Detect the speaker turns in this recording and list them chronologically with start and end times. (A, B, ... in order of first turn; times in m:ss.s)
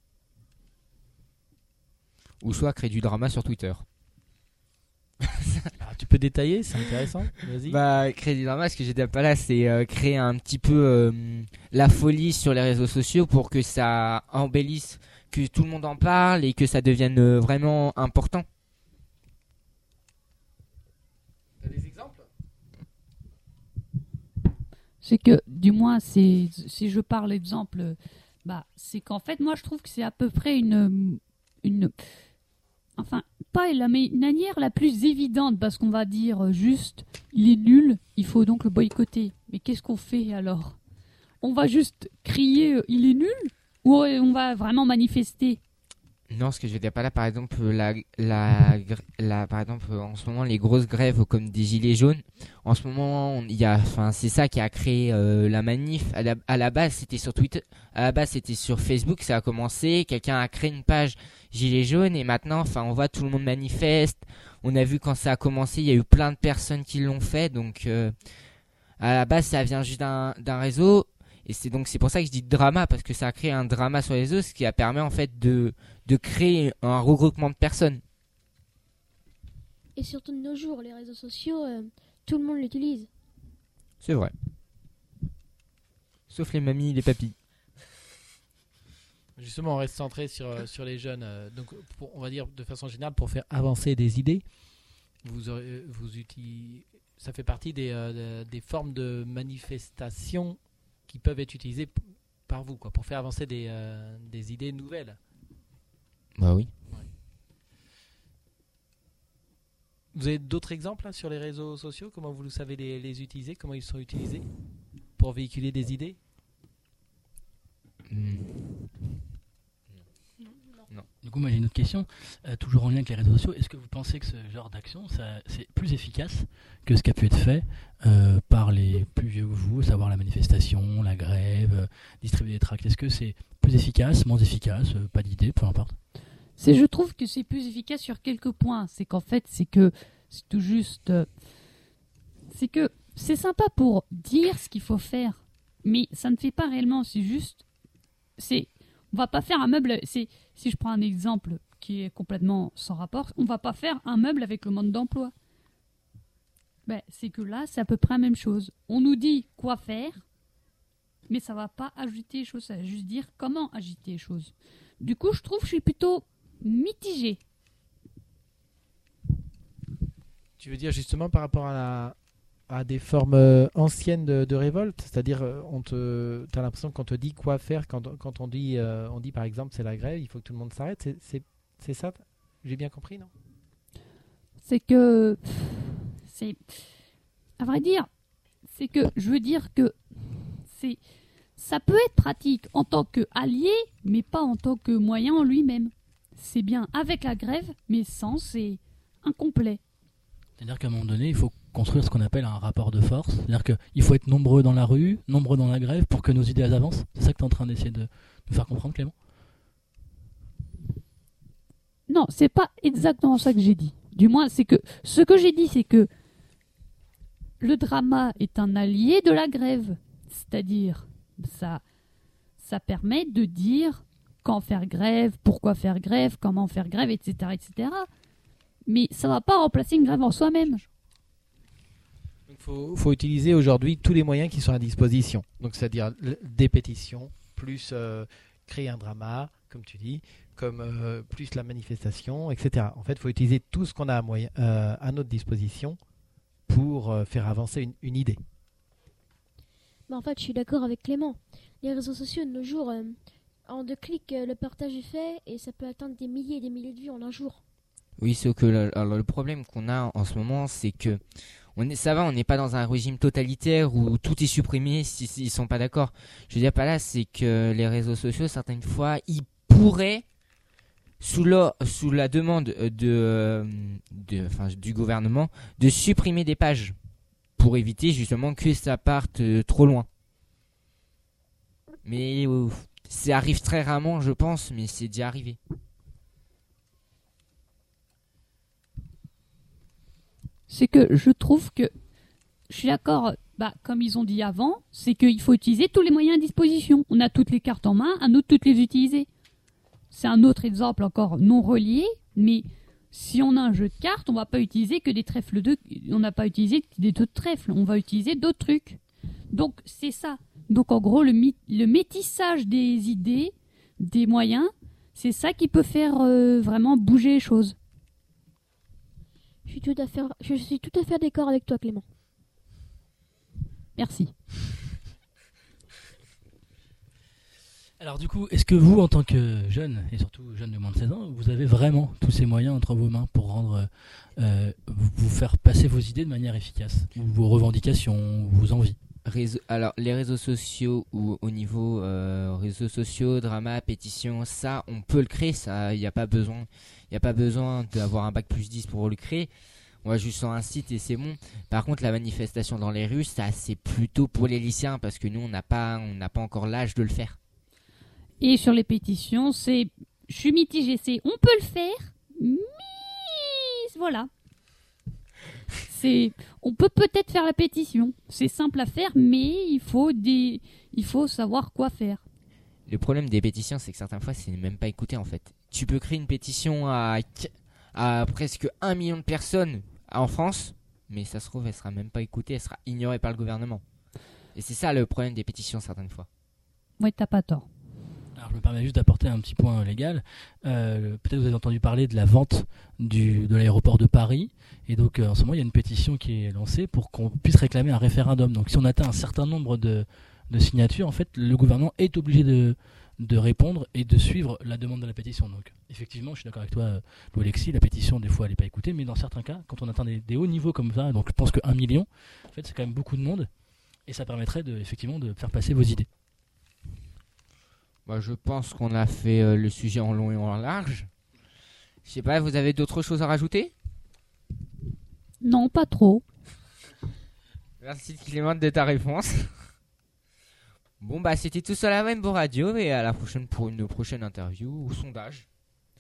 0:02.4-0:03.8 A
0:05.2-0:05.7 A
0:05.8-0:07.8 B
0:07.7-0:18.5 A
0:21.6-0:22.3 B
0:25.0-0:31.9 C
0:33.0-0:40.8 C
0:41.4-0:45.6 C
0:46.3-1:08.1 A
1:09.0-1:18.0 A
1:20.0-1:23.1 D
1:24.0-1:24.3 A
1:26.3-1:27.4 A
1:29.4-1:34.4 B
1:35.2-1:45.2 B
1:46.4-1:46.7 A
1:50.1-1:54.5 B
1:55.2-1:56.2 B
1:58.1-1:58.9 A
2:01.2-2:16.0 E
2:16.6-2:21.3 C
2:22.5-2:27.6 C
2:28.4-2:35.3 C
2:36.9-2:40.2 C
2:41.3-2:47.4 C
2:50.6-2:52.2 B
2:52.7-3:03.3 B
3:04.6-3:06.6 C
3:07.6-3:08.1 C
3:08.7-3:11.0 C
3:11.6-3:19.8 C
3:20.6-3:29.1 E
3:32.1-3:36.1 C
3:37.6-3:41.8 C
3:42.6-3:48.1 C
3:48.9-3:50.8 C
3:52.5-4:06.0 B
4:06.7-4:08.4 B
4:10.1-4:17.6 D
4:18.2-4:21.2 A
4:21.8-4:30.2 A
4:31.2-4:37.0 A
4:37.6-4:40.1 A
4:42.0-4:45.6 A
4:50.7-4:51.9 C
4:52.7-4:59.3 C
5:00.1-5:09.0 C
5:09.5-5:17.8 C
5:19.7-5:22.0 D
5:24.0-5:24.3 C
5:28.0-5:39.0 E
5:39.2-5:49.5 A
5:50.0-5:57.4 A
5:58.4-6:04.3 C
6:05.8-6:12.2 C
6:12.9-6:23.8 A
6:24.6-6:26.3 A
6:27.0-6:27.7 C
6:28.4-6:53.5 E
6:54.1-6:56.1 E
6:58.1-7:01.1 A
7:02.0-7:03.7 A
7:05.4-7:06.2 C
7:07.8-7:09.5 A
7:11.0-7:15.5 A